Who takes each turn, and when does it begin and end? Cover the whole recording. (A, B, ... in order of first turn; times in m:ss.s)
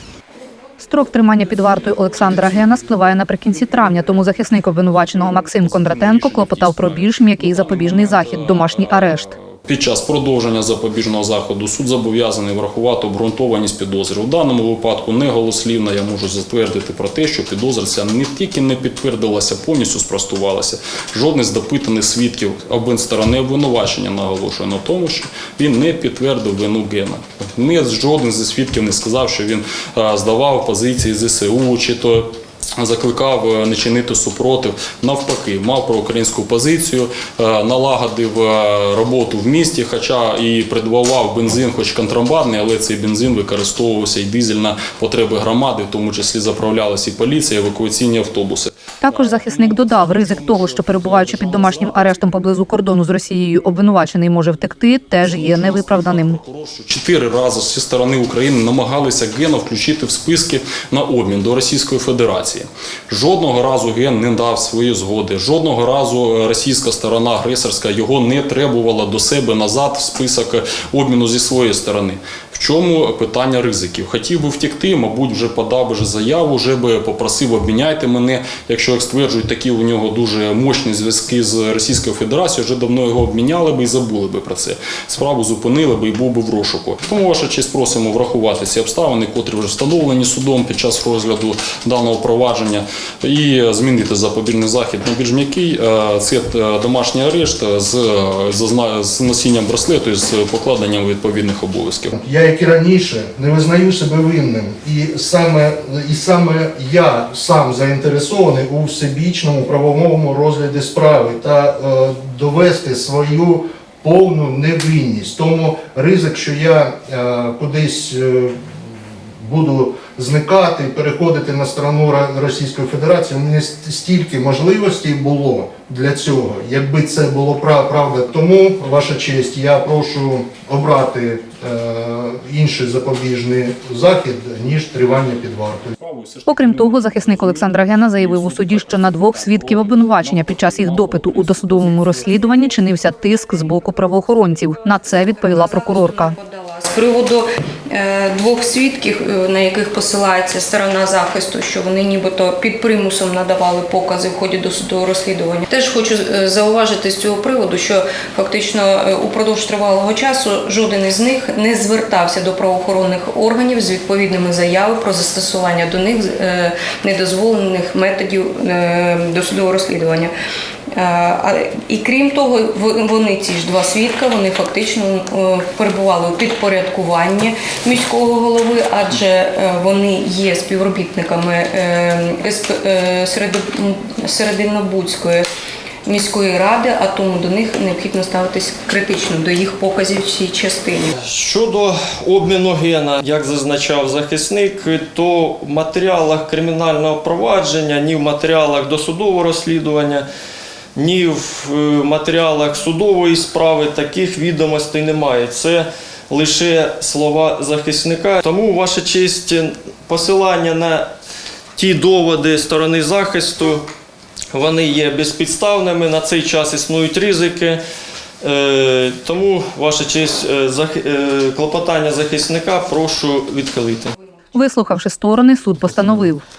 0:00.8-0:09.3 A
0:05.6-0:48.7 B
0:49.0-0:56.4 A
0:55.3-1:42.1 B
1:42.1-2:15.9 C
2:16.0-2:16.5 B
2:16.5-2:26.3 A
2:25.4-2:50.3 D
2:50.9-3:05.5 D
3:06.1-3:11.1 D
3:11.1-3:20.3 E
3:21.0-3:31.1 E
3:31.8-3:33.9 E
3:34.5-3:37.8 E
3:38.4-3:44.1 E
3:44.5-3:46.4 A